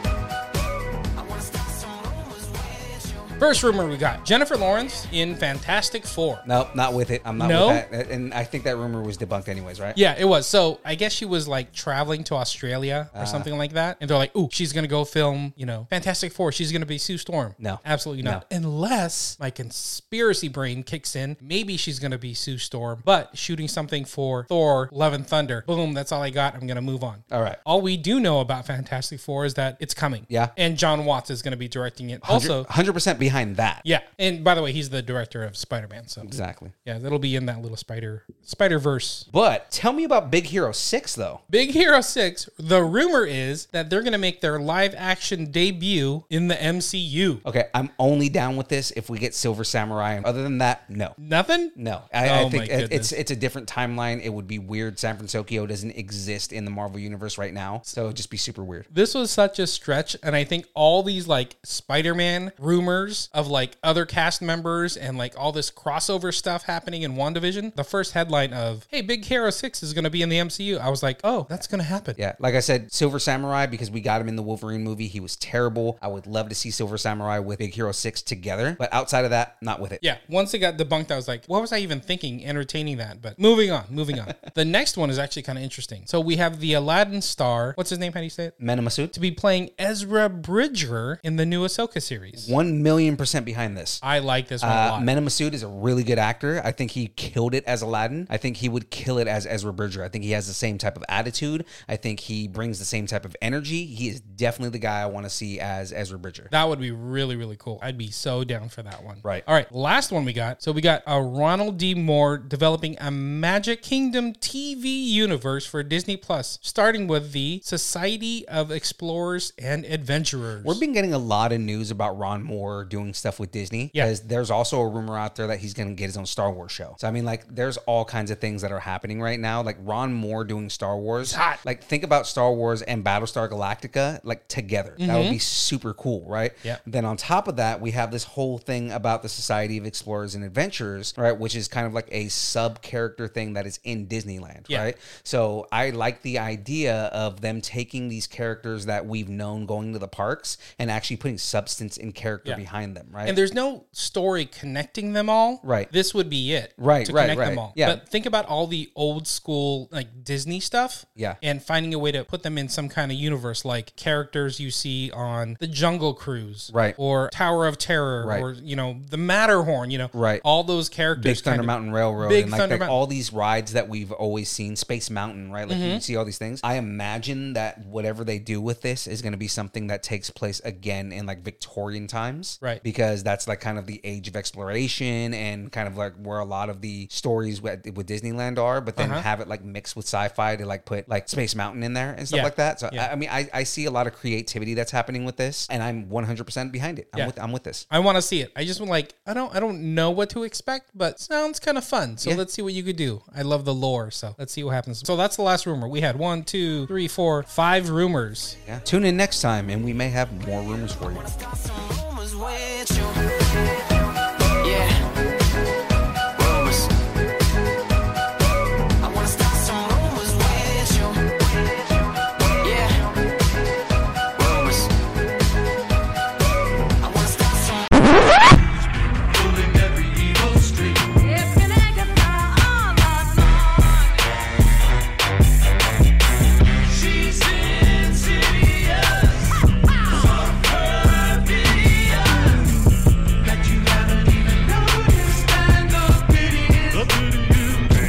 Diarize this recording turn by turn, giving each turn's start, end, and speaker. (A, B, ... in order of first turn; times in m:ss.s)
0:01.2-0:03.3 A
0:03.4-0:06.4 B
0:06.4-0:10.0 C
0:07.4-0:07.8 B
0:09.9-0:32.7 B
0:13.1-0:13.5 C
0:17.6-0:18.4 C
0:27.3-0:27.6 C
0:30.3-0:30.5 C
0:32.2-0:33.8 C
0:33.8-0:36.3 B
0:36.2-0:36.7 C
0:36.8-0:39.3 B
0:39.3-0:41.4 C
0:41.5-0:47.4 B
0:47.4-0:51.2 C
0:51.2-0:53.1 B
0:51.7-0:58.9 C
0:58.9-1:12.2 B
1:12.2-1:20.0 C
1:20.0-1:28.5 B
1:28.6-1:29.1 C
1:29.1-1:32.5 B
1:32.4-1:34.0 C
1:34.0-1:35.1 B
1:34.6-1:46.5 C
1:46.5-2:00.8 B
2:00.6-2:33.4 C
2:11.2-2:11.6 B
2:15.0-2:15.4 B
2:33.2-2:53.0 B
2:35.6-2:35.9 C
2:36.8-2:38.0 C
2:46.7-2:47.0 C
2:48.2-2:48.4 C
2:50.1-2:50.4 C
2:51.2-3:17.8 C
2:55.7-2:56.0 B
3:09.0-3:09.2 B
3:12.3-3:13.1 B
3:17.9-3:28.6 B
3:28.6-3:31.3 C
3:31.1-3:33.2 A
3:34.6-3:35.0 A
3:36.4-3:36.9 A
3:39.0-3:43.1 A
3:44.4-3:44.9 A
3:47.0-3:47.9 A
3:49.4-3:50.9 A
3:56.9-3:59.5 A
4:00.4-4:02.6 A
4:03.4-4:07.0 A